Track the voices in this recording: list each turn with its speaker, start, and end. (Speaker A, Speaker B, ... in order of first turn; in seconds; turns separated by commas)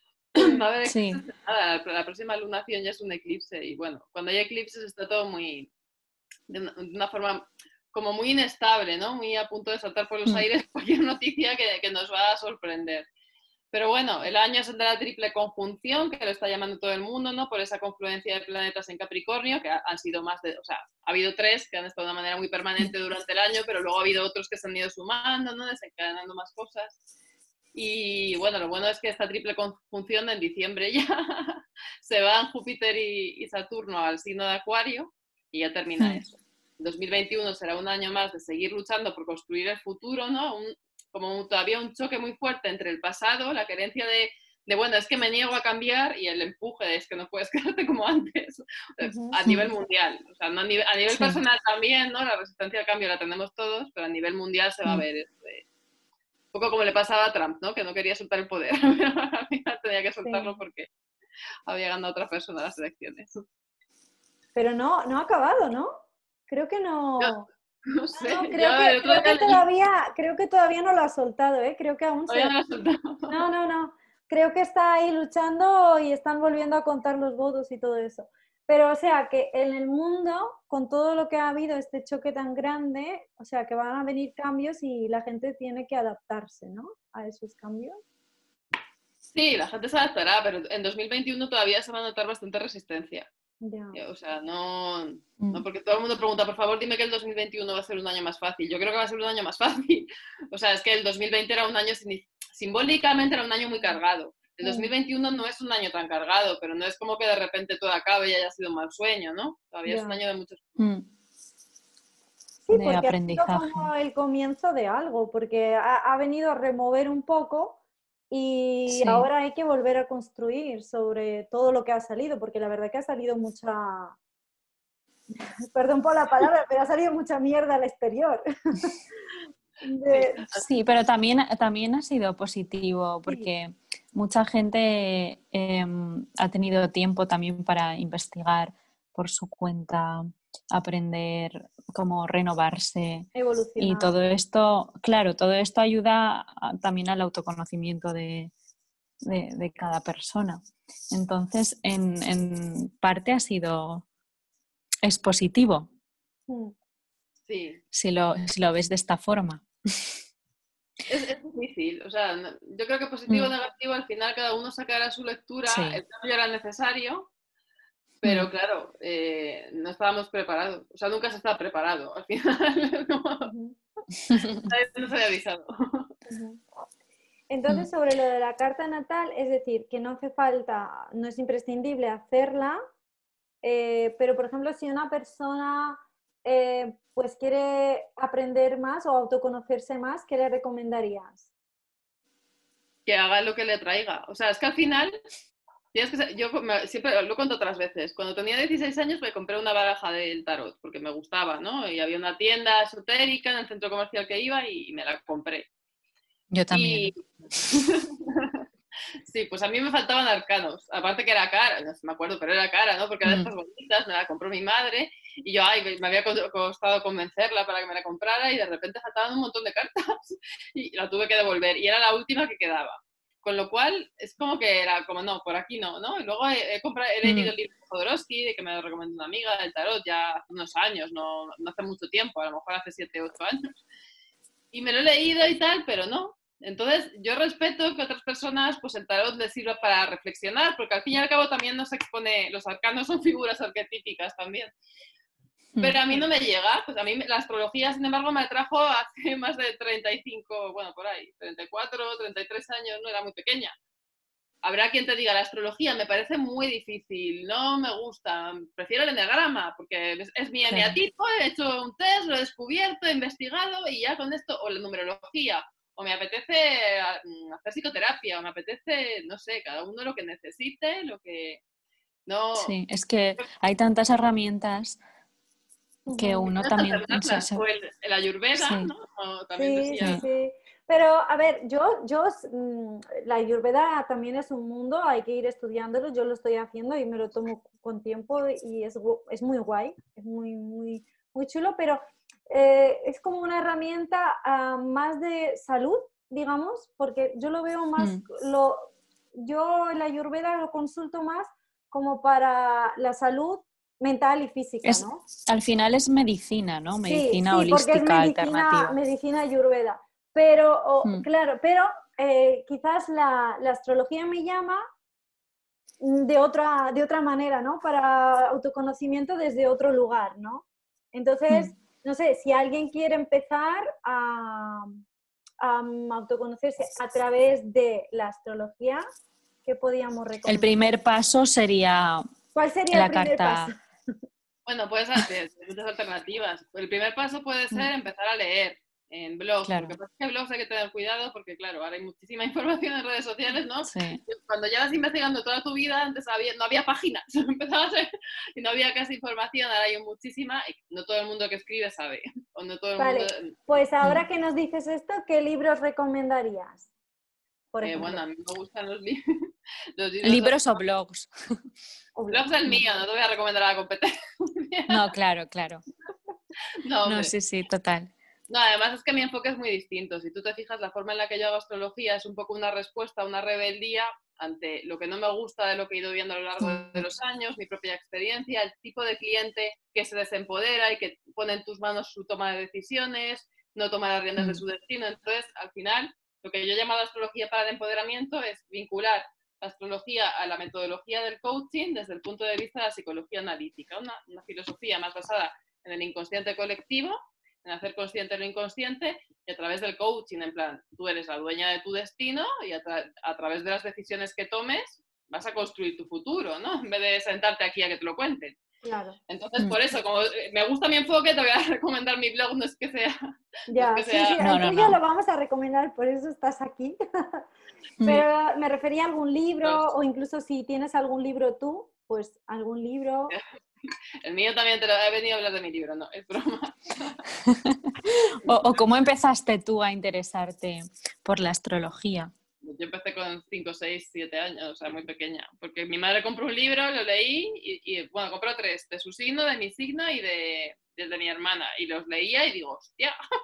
Speaker A: 0.3-5.7, Speaker B: 0.4-0.6, Speaker C: 0.8-1.2, Speaker A: 6.5-13.1, Speaker A: 13.7-26.9, Speaker A: 27.7-55.6, Speaker B: 49.0-49.4, Speaker C: 49.4-49.7, Speaker C: 51.1-51.4, Speaker A: 56.5-60.9, Speaker B: 60.2-60.6, Speaker A: 61.7-63.4, Speaker B: 64.5-66.0, Speaker B: 66.5-67.5, Speaker A: 67.8-69.6, Speaker B: 68.2-72.5, Speaker A: 72.3-73.4, Speaker B: 73.3-88.0, Speaker A: 89.3-93.3, Speaker B: 93.6-94.0, Speaker A: 93.9-110.6, Speaker C: 95.4-95.6, Speaker B: 104.6-104.9, Speaker B: 109.8-110.2, Speaker C: 110.8-111.0, Speaker B: 112.7-117.8, Speaker C: 112.7-113.9, Speaker B: 118.3-124.2, Speaker C: 118.9-119.3, Speaker B: 125.7-129.0, Speaker B: 129.8-130.5, Speaker A: 130.1-130.6, Speaker C: 130.5-148.5, Speaker B: 143.3-144.1, Speaker C: 149.2-154.0, Speaker C: 155.0-155.9, Speaker B: 156.5-156.7, Speaker A: 157.5-157.8, Speaker C: 157.9-160.2, Speaker A: 161.1-167.3, Speaker C: 165.7-166.0, Speaker A: 168.2-173.5, Speaker C: 168.2-168.5, Speaker B: 173.4-173.8, Speaker C: 174.2-174.7, Speaker A: 174.6-176.1, Speaker B: 176.3-176.6, Speaker B: 177.5-182.8, Speaker B: 183.6-191.5, Speaker A: 193.1-195.2, Speaker A: 195.9-205.7, Speaker C: 206.5-207.1, Speaker A: 206.7-208.6, Speaker A: 209.2-233.7, Speaker C: 213.2-213.5, Speaker C: 227.2-227.5, Speaker A: 234.7-244.7, Speaker A: 245.8-253.7, Speaker A: 254.6-271.6, Speaker C: 260.6-261.0, Speaker A: 272.2-272.7, Speaker C: 272.6-275.0, Speaker B: 276.1-276.5, Speaker C: 276.1-277.6, Speaker A: 276.5-280.2, Speaker C: 278.6-278.9, Speaker B: 279.6-305.2, Speaker C: 298.0-298.2, Speaker C: 304.8-308.9, Speaker B: 307.1-314.8, Speaker B: 316.0-325.0, Speaker B: 325.6-329.0, Speaker B: 329.6-330.7, Speaker C: 330.4-332.3, Speaker B: 332.5-333.8, Speaker C: 332.9-333.7, Speaker A: 334.6-353.5, Speaker C: 339.6-339.9, Speaker C: 343.8-344.2, Speaker B: 353.0-356.9, Speaker B: 357.7-358.2, Speaker A: 357.8-360.8, Speaker C: 360.2-361.3, Speaker B: 362.1-362.4, Speaker A: 362.3-365.0, Speaker C: 364.9-365.8, Speaker A: 366.8-367.3, Speaker C: 367.0-368.1, Speaker A: 368.5-408.6, Speaker C: 376.6-377.1, Speaker C: 384.4-384.6, Speaker B: 408.8-409.2, Speaker A: 409.3-414.4, Speaker B: 413.7-417.4, Speaker C: 414.4-415.0, Speaker B: 418.0-423.3, Speaker A: 424.2-427.2, Speaker C: 427.4-432.3, Speaker A: 432.6-443.2